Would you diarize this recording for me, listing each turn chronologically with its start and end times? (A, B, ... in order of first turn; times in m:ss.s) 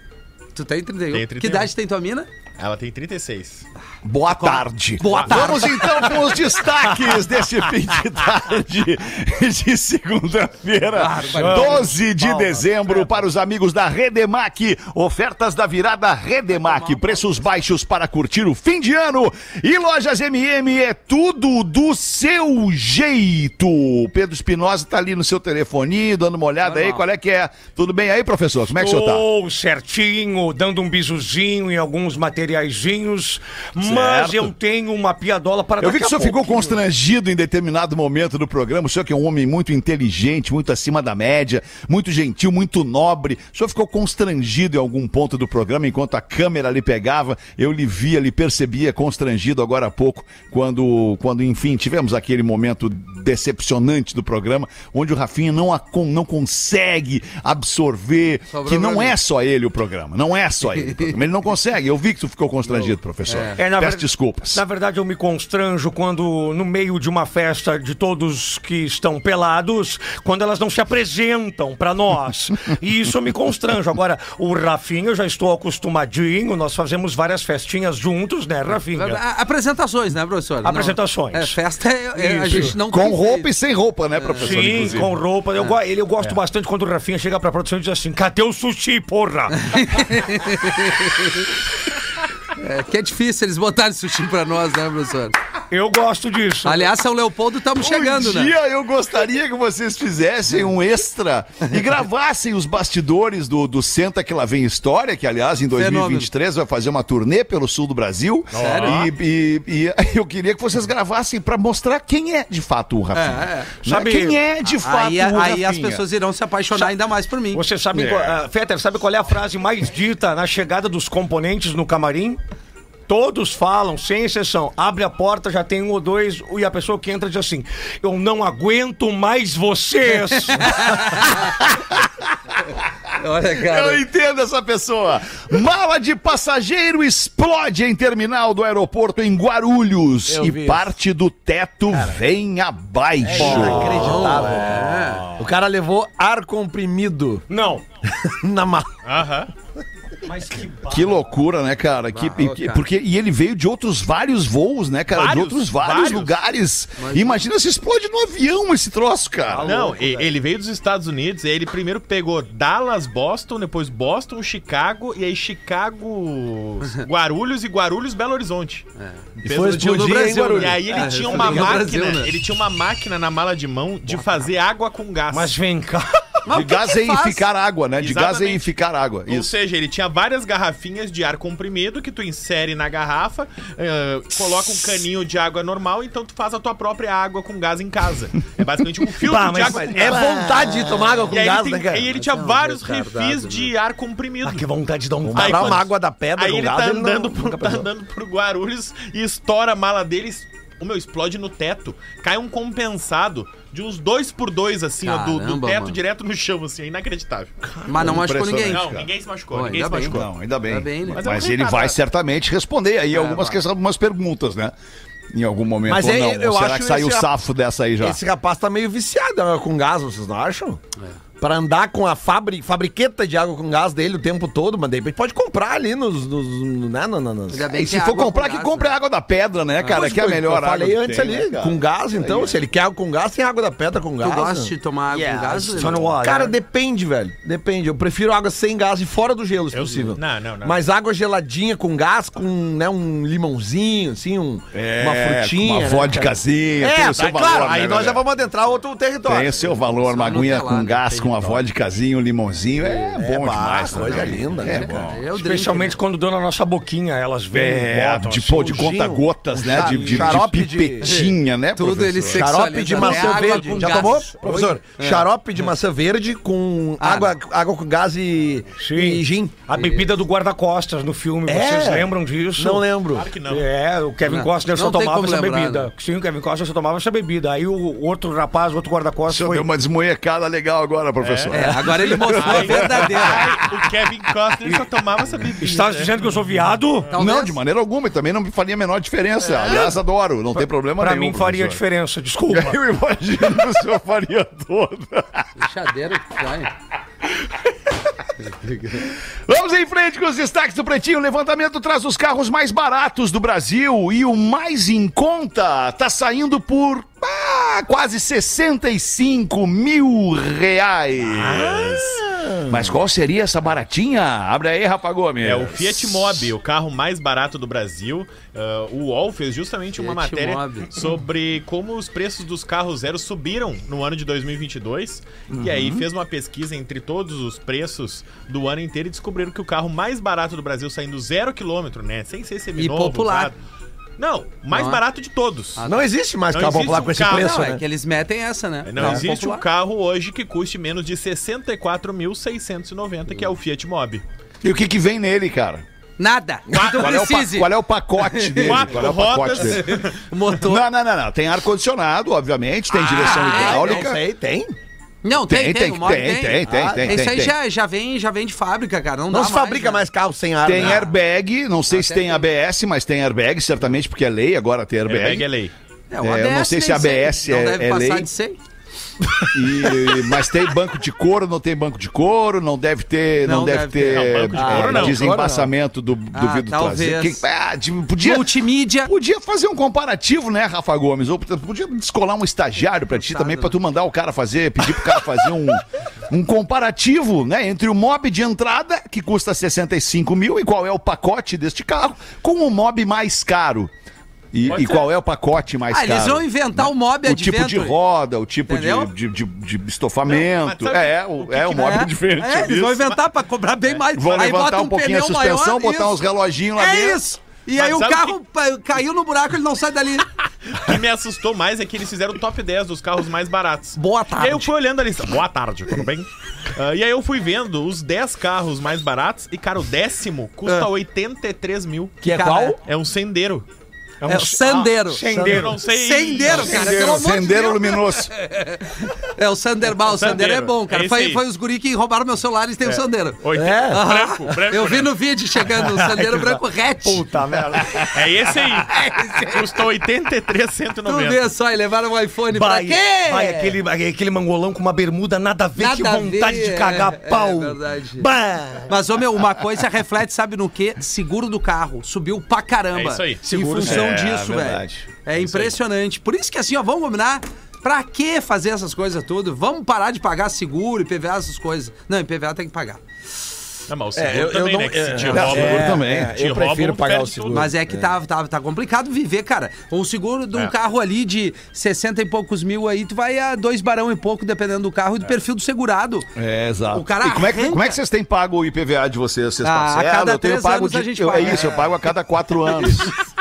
0:00.5-0:02.3 A
0:01.1-0:01.7 B
0:02.6-0:03.6 B
0:04.0-0:29.2 C
0:04.3-0:06.4 A
0:05.1-0:05.8 B
0:10.9-0:11.9 A
0:11.3-0:13.0 D
0:16.6-0:17.2 A
0:26.6-0:27.0 A
0:28.7-0:36.8 D
0:33.8-0:34.5 C
0:35.8-1:04.6 C
0:58.5-0:59.1 A
1:00.8-1:01.1 A
1:03.3-1:03.5 A
1:03.6-1:19.2 D
1:18.9-1:23.5 A
1:20.6-1:21.6 D
1:22.1-1:22.8 D
1:22.8-1:25.1 C
1:24.1-1:24.5 A
1:24.4-1:30.3 D
1:29.6-1:31.5 A
1:32.6-1:35.3 A
1:35.7-1:36.9 D
1:36.6-1:38.5 A
1:37.8-1:56.0 C
1:45.7-1:46.3 A
1:48.5-1:49.1 B
1:48.6-1:49.0 A
1:53.1-1:57.6 A
1:53.9-1:54.3 D
1:57.5-2:02.4 D
1:57.9-1:58.4 C
2:03.1-2:11.5 D
2:10.6-2:11.4 A
2:13.2-2:14.0 A
2:13.4-2:24.2 C
2:20.3-2:20.9 E
2:23.2-2:27.4 E
2:23.3-2:25.5 D
2:23.9-2:25.2 A
2:27.5-2:27.8 D
2:28.2-2:29.0 E
2:29.0-2:29.5 B
2:30.2-2:31.2 D
2:30.9-2:39.7 C
2:32.1-2:32.8 A
2:35.1-2:36.4 B
2:37.0-2:37.4 A
2:39.5-2:40.3 D
2:39.6-2:48.8 B
2:49.0-2:52.3 A
2:49.4-2:51.9 E
2:49.4-2:55.6 B
2:55.3-2:56.4 D
2:56.4-2:57.4 A
2:56.5-2:59.5 C
2:58.0-2:58.7 B
2:59.3-3:10.2 B
3:09.2-3:10.5 D
3:09.6-3:12.2 E
3:10.2-3:11.1 C
3:11.3-3:14.7 B
3:12.3-3:13.7 A
3:14.4-3:15.8 D
3:15.3-3:17.9 E
3:15.3-3:27.7 B
3:25.0-3:26.0 A
3:27.8-3:29.1 C
3:27.8-3:28.9 A
3:28.6-3:30.2 B
3:29.5-3:31.2 A
3:29.9-3:34.7 C
3:31.1-3:32.0 B
3:33.1-3:33.6 A
3:35.3-3:38.2 C
3:35.9-3:37.3 E
3:38.0-3:40.8 E
3:41.4-3:47.8 E
3:47.5-3:48.9 A
3:47.7-3:52.6 C
3:49.8-4:09.8 E
3:54.2-3:56.1 A
3:55.7-3:56.6 D
3:59.7-4:00.8 B
4:04.7-4:08.2 C
4:07.2-4:07.5 B
4:09.2-4:15.2 C
4:10.0-4:11.6 A
4:12.8-4:13.2 A
4:13.2-4:15.1 E
4:14.6-4:16.0 A
4:15.3-4:18.7 D
4:17.5-4:23.3 C
4:18.5-4:21.1 E
4:20.2-4:20.4 D
4:21.0-4:25.2 A
4:22.3-4:29.7 E
4:27.0-4:27.3 A
4:28.8-4:32.9 D
4:29.7-4:30.1 A
4:31.4-4:33.3 E
4:33.1-4:33.7 B
4:33.4-4:39.7 D
4:34.3-4:35.9 A
4:39.3-4:43.9 C
4:41.2-4:41.7 B
4:41.5-4:43.4 A
4:42.2-4:46.2 B
4:45.6-4:47.1 D
4:47.1-4:47.6 A
4:47.1-4:51.8 C
4:51.0-4:52.8 D
4:52.5-4:55.5 C
4:55.6-4:56.7 A
4:58.5-4:59.0 A
4:58.9-5:16.5 C
5:11.4-5:12.9 E
5:15.4-5:33.6 B
5:20.0-5:21.0 A
5:25.5-5:26.0 C
5:32.8-5:33.5 A
5:34.2-5:35.8 B
5:34.7-5:35.0 A
5:35.8-5:36.0 A
5:35.8-5:37.8 E
5:36.5-5:37.6 B
5:37.2-5:39.6 A
5:38.8-5:44.2 B
5:39.0-5:39.2 E
5:44.6-5:45.8 C
5:46.2-5:48.9 A
5:46.7-5:47.2 B
5:46.8-5:50.0 C
5:48.6-5:50.2 B
5:49.6-5:50.8 A
5:50.5-5:54.2 C
5:53.0-5:54.8 E
5:53.1-5:54.0 A
5:55.2-6:00.0 A
5:55.3-5:57.5 C
5:56.6-5:57.5 E
5:59.3-6:01.1 E
6:00.6-6:05.5 C
6:00.8-6:01.0 A
6:01.9-6:02.5 A
6:05.0-6:05.7 B
6:06.1-6:08.6 A
6:06.2-6:08.3 C
6:09.5-6:33.9 C
6:13.4-6:15.0 A
6:14.1-6:15.4 B
6:14.6-6:15.7 E
6:16.3-6:17.4 A
6:18.2-6:19.1 A
6:23.1-6:23.8 A
6:34.5-6:43.2 C
6:34.7-6:35.0 B
6:35.9-6:38.0 A
6:38.7-6:39.1 A
6:40.2-6:42.0 B
6:41.7-6:46.2 A
6:44.1-6:47.2 C
6:46.8-6:50.3 A
6:47.7-6:48.4 B
6:50.7-7:02.2 B
6:54.0-6:54.7 A
7:02.2-7:02.8 E
7:02.2-7:02.8 A
7:02.8-7:03.6 B
7:04.2-7:05.8 D
7:04.3-7:05.3 A
7:05.3-7:05.7 E
7:05.4-7:07.0 B
7:05.8-7:17.2 A
7:06.4-7:07.3 D
7:06.7-7:08.3 C
7:10.0-7:11.4 B
7:12.8-7:15.1 B
7:13.5-7:14.0 E
7:15.8-7:19.2 D
7:18.1-7:21.5 B
7:18.9-7:19.6 A
7:21.0-7:23.8 A
7:22.5-7:28.9 D
7:25.8-7:28.3 A
7:28.9-7:43.0 A
7:32.9-7:33.4 B
7:33.6-7:33.9 D
7:33.8-7:35.1 C
7:35.3-7:35.8 B
7:43.9-7:47.7 B
7:44.1-7:48.1 E
7:45.3-7:46.4 C
7:47.5-7:56.3 A
7:56.3-8:03.1 C
7:56.9-7:58.0 A
7:59.6-8:01.9 A
8:02.8-8:03.0 A